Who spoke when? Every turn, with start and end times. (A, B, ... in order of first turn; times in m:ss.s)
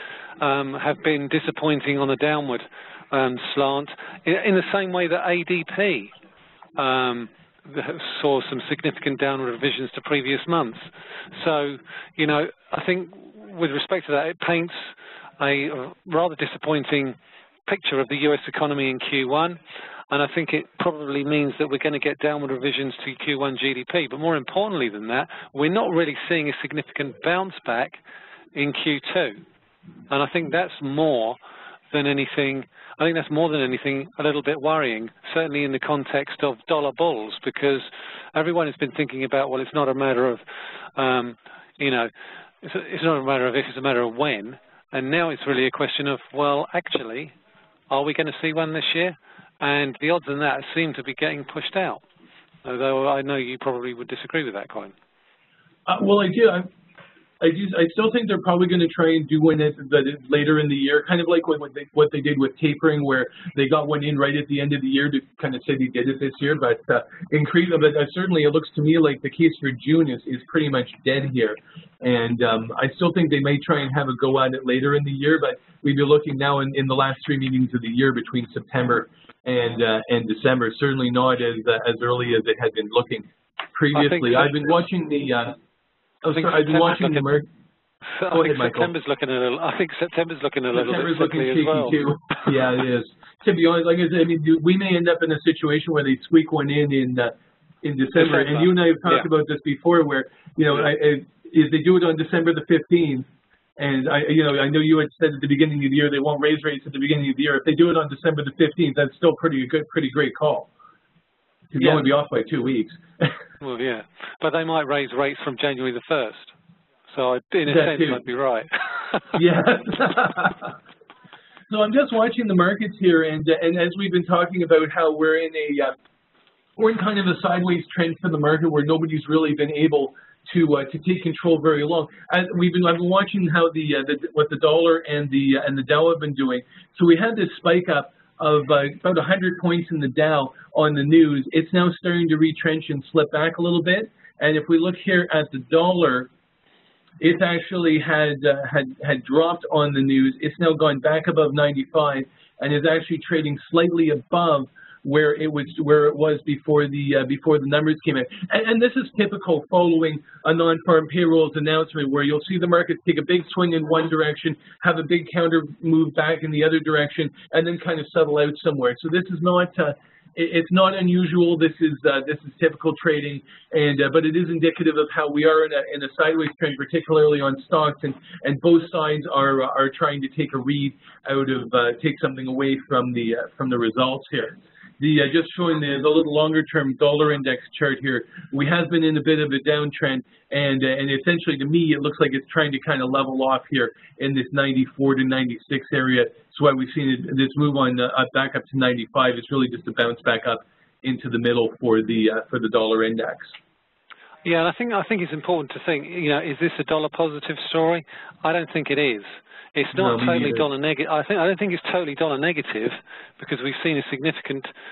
0:00.4-0:06.1 A
0:06.8-0:14.8 A
0:15.4-0:17.2 A
0:17.7-0:28.0 A
0:28.5-0:29.4 A
0:30.1-0:31.4 A
0:31.9-0:40.4 A
0:40.9-0:42.1 A
0:42.6-0:47.3 A
0:47.9-0:52.0 A
0:52.6-0:54.9 A
0:55.9-0:56.7 B
0:57.4-1:25.6 B
1:23.9-1:24.5 A
1:26.2-1:27.5 B
1:26.3-1:27.3 A
1:28.2-1:32.0 A
1:28.3-1:28.9 B
1:30.7-1:43.3 B
1:38.2-1:39.3 A
1:43.8-1:50.7 B
1:51.7-1:53.3 B
1:53.6-1:56.5 A
1:57.1-1:59.3 A
1:57.7-1:58.2 B
1:59.3-2:00.8 B
2:01.7-2:05.9 B
2:06.8-2:26.3 B
2:27.2-3:23.5 B
3:24.4-3:34.7 A
3:29.9-3:30.7 B